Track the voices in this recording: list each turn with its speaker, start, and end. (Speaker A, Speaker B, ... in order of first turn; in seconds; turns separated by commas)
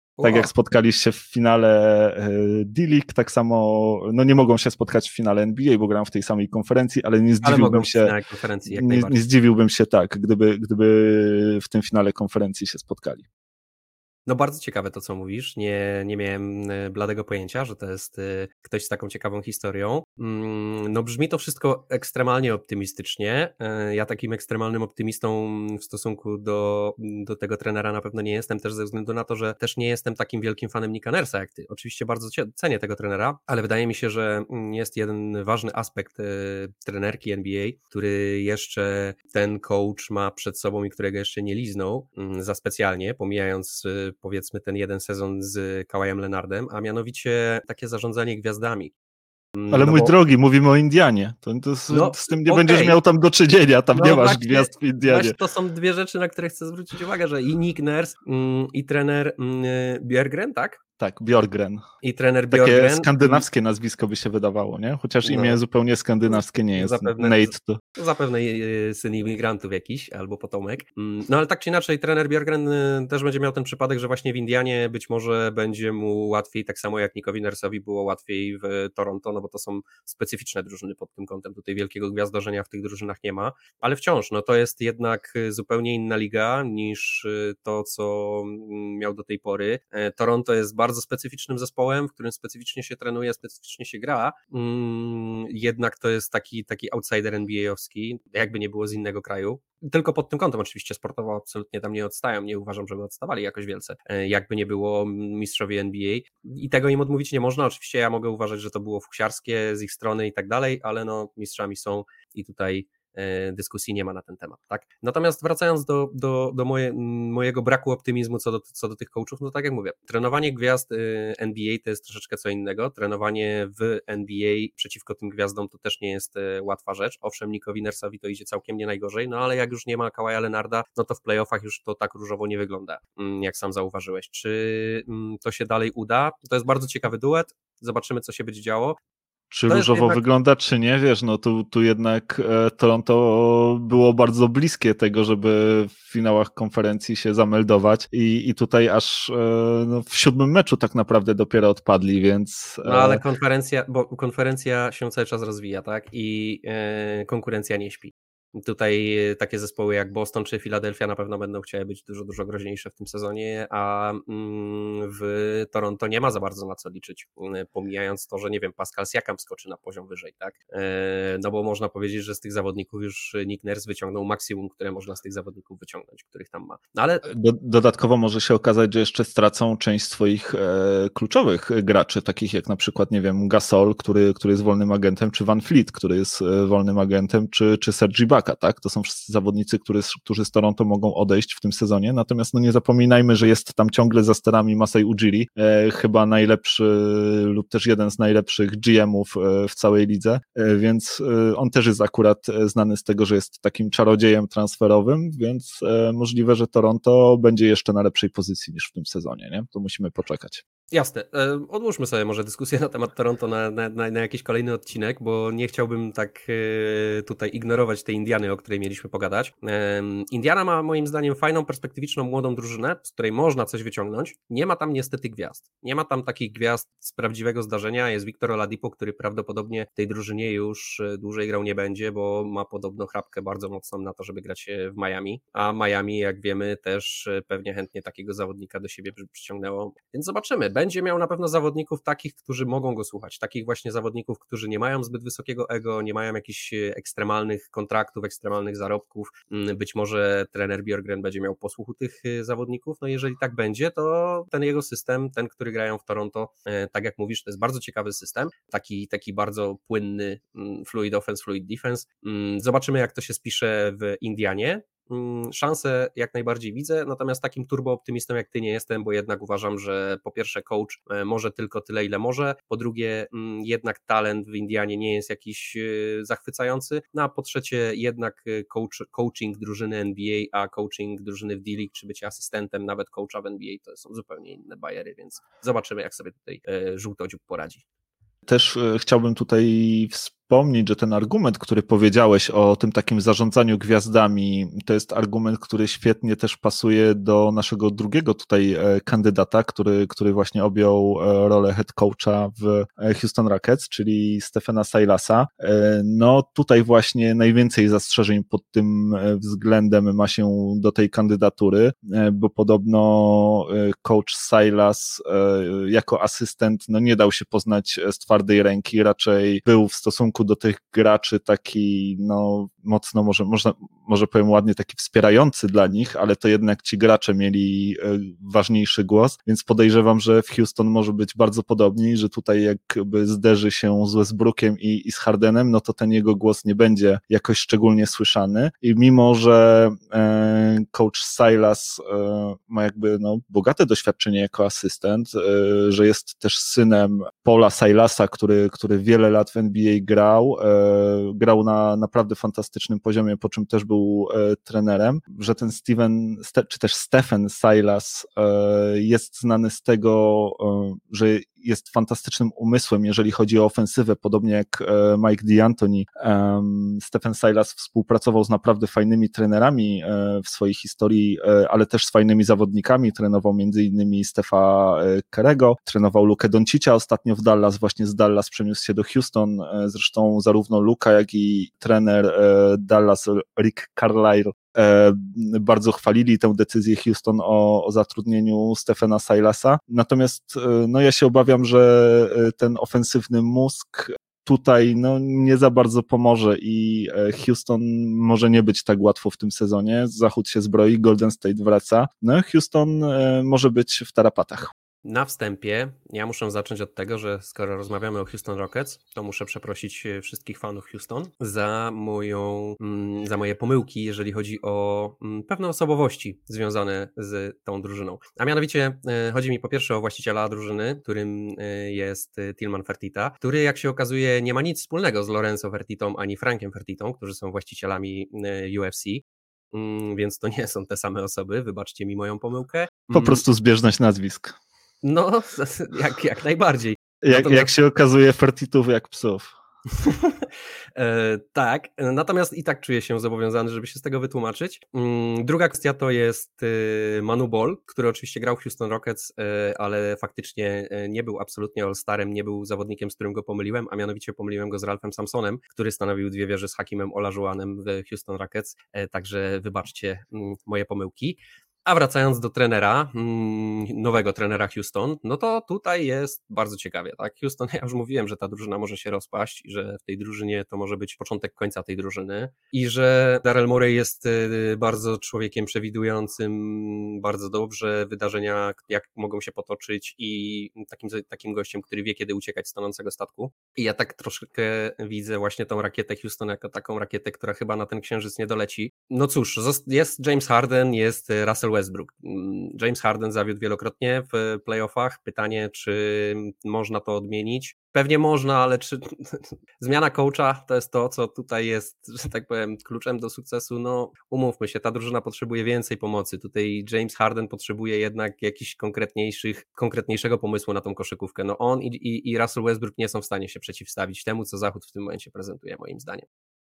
Speaker A: 0.2-0.5, Speaker B: 0.2-8.1, Speaker A: 7.4-9.2, Speaker B: 8.7-13.2, Speaker A: 14.3-48.9, Speaker A: 49.6-50.1, Speaker B: 49.7-55.4, Speaker A: 51.9-53.0, Speaker A: 53.9-60.8, Speaker B: 61.0-61.8, Speaker A: 62.0-63.5, Speaker B: 62.5-67.8, Speaker A: 65.2-65.6, Speaker A: 66.3-139.0, Speaker B: 139.5-153.2, Speaker A: 139.7-140.2, Speaker A: 152.8-177.3, Speaker B: 177.2-210.6, Speaker A: 210.9-287.8, Speaker B: 288.5-404.7, Speaker A: 405.0-433.4, Speaker B: 433.1-434.6, Speaker A: 435.0-437.7, Speaker B: 437.2-439.5, Speaker A: 439.9-516.3